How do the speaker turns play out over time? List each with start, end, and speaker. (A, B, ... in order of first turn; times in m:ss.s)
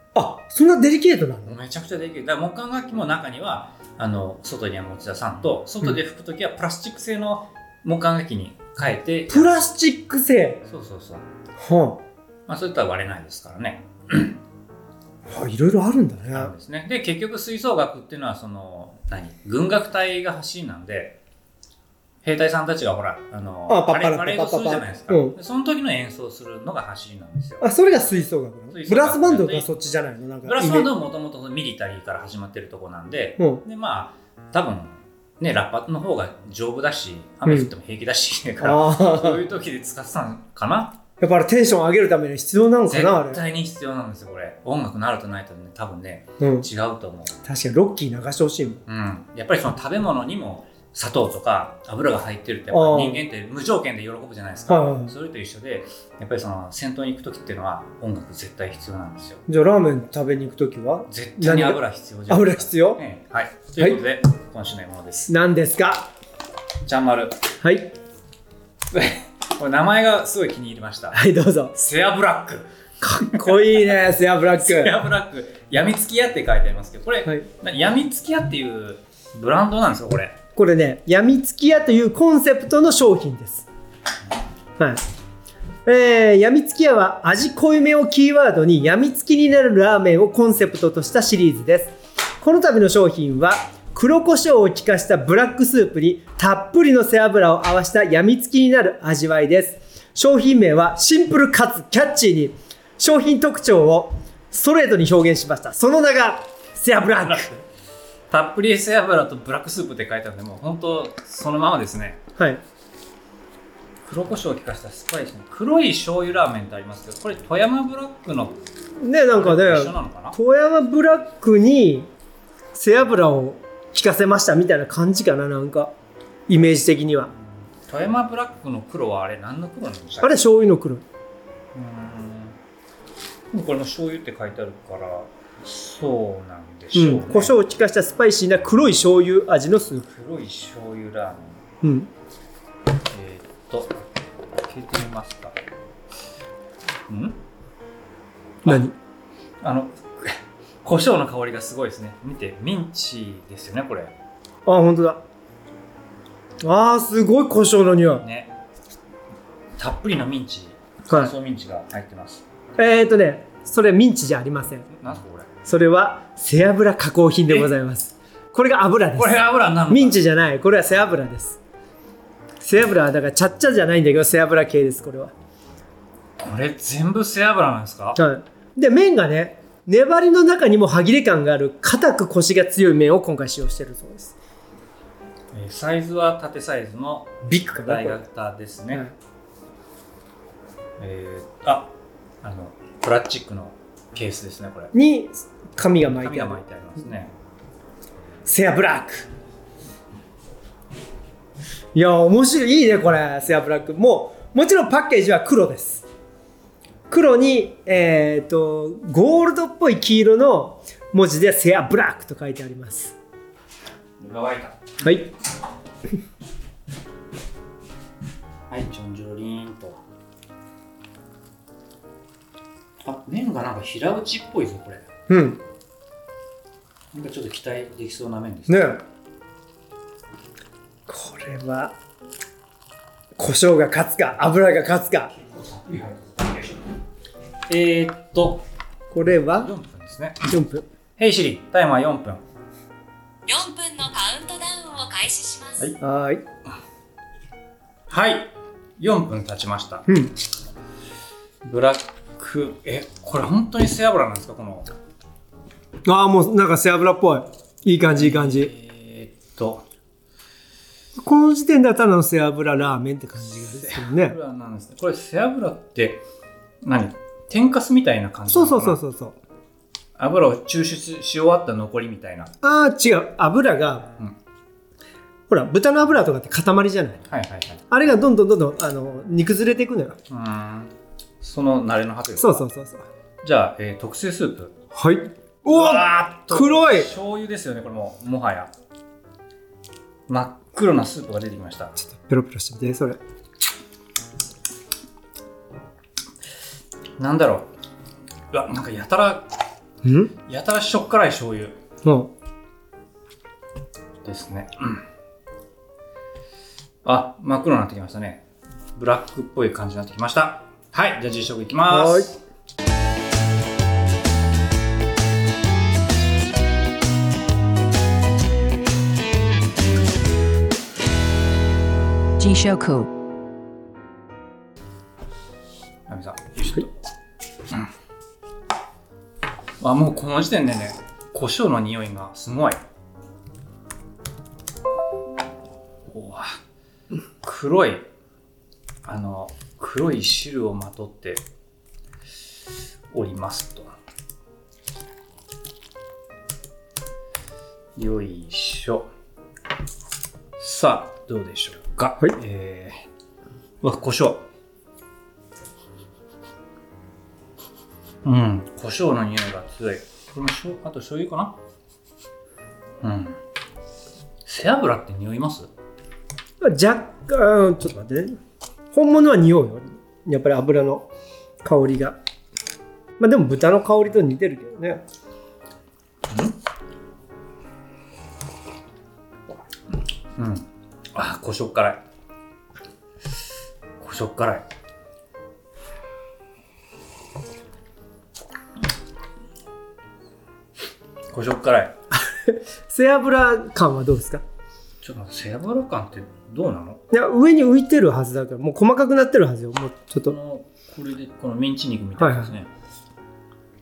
0:00.2-0:01.6 A
0:01.4-0:09.5 B
0:09.3-0:10.6 A
0:10.6-0:11.3 B
0:11.6-0:12.0 A
0:12.5-0:14.4 B
0:15.3-0:16.5 A
0:16.3-0:21.2 B
0:22.2-0:27.6 B
0:23.7-0:25.4 A
0:27.6-0:30.9 A
0:28.7-0:29.7 B
0:30.4-0:41.0 B
0:33.4-0:33.6 A
0:37.4-0:37.7 A
0:38.6-0:39.4 A
0:41.2-0:43.4 A
0:42.9-0:47.3 B
0:46.4-0:46.7 A
0:47.4-0:48.8 A
0:48.9-0:59.4 B
0:52.7-0:53.2 A
0:54.7-0:55.1 A
0:59.5-1:03.0 A
1:01.1-1:05.3 B
1:05.3-1:06.1 A
1:06.8-1:07.4 B
1:07.6-1:07.9 A
1:08.9-1:11.2 B
1:11.1-1:11.7 A
1:11.7-1:12.7 B
1:13.0-1:15.0 A
1:13.2-1:13.9 B
1:14.6-1:20.4 B
1:20.6-1:23.7 A
1:25.9-1:47.6 A
1:47.2-1:47.6 B
1:48.3-1:52.2 B
1:54.0-1:58.6 B
1:59.0-2:02.1 A
1:59.3-2:00.4 B
2:02.8-2:05.9 A
2:06.5-2:07.3 A
2:07.4-2:10.4 B
2:10.2-2:11.0 A
2:11.7-2:12.6 B
2:13.5-2:17.6 B
2:16.9-2:20.1 A
2:20.1-2:21.6 B
2:21.8-2:22.1 A
2:23.1-2:24.0 B
2:24.6-2:25.6 B
2:27.1-2:27.4 B
2:28.6-2:29.0 A
2:29.6-2:34.1 B
2:34.7-2:35.2 A
2:36.6-2:38.2 A
2:38.2-2:38.5 B
2:39.8-2:42.4 B
2:42.8-2:44.9 A
2:44.9-2:45.5 B
2:45.6-2:51.6 A
2:49.2-2:50.2 B
2:52.6-2:55.3 A
2:56.4-2:58.2 B
2:58.2-3:04.3 A
3:05.5-3:09.0 B
3:07.4-3:08.2 A
3:11.0-3:14.9 B
3:14.9-3:16.6 A
3:16.1-3:17.3 B
3:18.4-3:19.3 A
3:21.9-3:26.0 A
3:27.1-3:33.2 A
3:34.2-3:34.9 B
3:35.0-3:35.3 A
3:38.7-3:40.0 B
3:43.0-3:45.1 B
3:45.3-3:45.6 A
3:47.1-3:49.0 B
3:48.7-3:49.0 A
3:51.1-3:52.0 A
3:53.4-3:55.3 A
3:55.4-3:56.8 B
3:57.7-3:58.6 B
3:59.1-3:59.7 A
3:59.5-4:00.5 B
4:00.4-4:00.9 A
4:01.2-4:02.4 B
4:03.5-4:05.9 C
4:06.0-4:06.4 A
4:08.1-4:10.1 B
4:10.1-4:10.3 A
4:11.6-4:14.9 B
4:16.1-4:18.7 A
4:18.1-4:19.8 B
4:21.2-4:24.4 A
4:23.5-4:26.2 B
4:26.8-4:29.0 B
4:28.5-4:29.4 A
4:30.2-4:32.5 B
4:32.6-4:34.1 A
4:35.5-4:37.2 A
4:37.3-4:37.8 B
4:37.9-4:40.2 A
4:40.3-4:42.7 B
4:42.4-4:43.0 A
4:43.4-4:44.8 B
4:44.9-4:47.1 A
4:45.7-4:48.7 B
4:50.3-4:51.9 B
4:52.0-4:53.2 A
4:57.2-4:57.7 B
4:58.5-4:59.5 B
5:00.0-5:00.3 A
5:00.5-5:01.8 B
5:02.0-5:02.3 A
5:04.2-5:05.0 B
5:07.0-5:08.4 B
5:09.0-5:12.4 B
5:11.9-5:12.3 A
5:22.4-5:23.1 C
5:26.1-5:26.9 B
5:29.8-5:32.8 B
5:36.1-5:36.6 B
5:37.4-5:38.1 B
5:39.0-5:41.4 B
5:43.1-5:43.9 B
5:48.0-5:49.1 B
5:50.6-5:53.0 B
5:53.8-5:54.4 B
5:58.2-6:01.6 B
6:03.0-6:03.4 B
6:04.4-6:05.7 B
6:06.6-6:08.4 A
6:08.9-6:11.1 A
6:11.6-6:12.2 A
6:13.2-6:15.0 A
6:16.3-6:16.6 B
6:20.4-6:22.0 B
6:24.0-6:24.6 B
6:31.3-6:32.0 B
6:32.3-6:34.4 A
6:35.0-6:37.0 B
6:37.1-6:40.4 A
6:40.2-6:42.7 B
6:42.2-6:42.5 A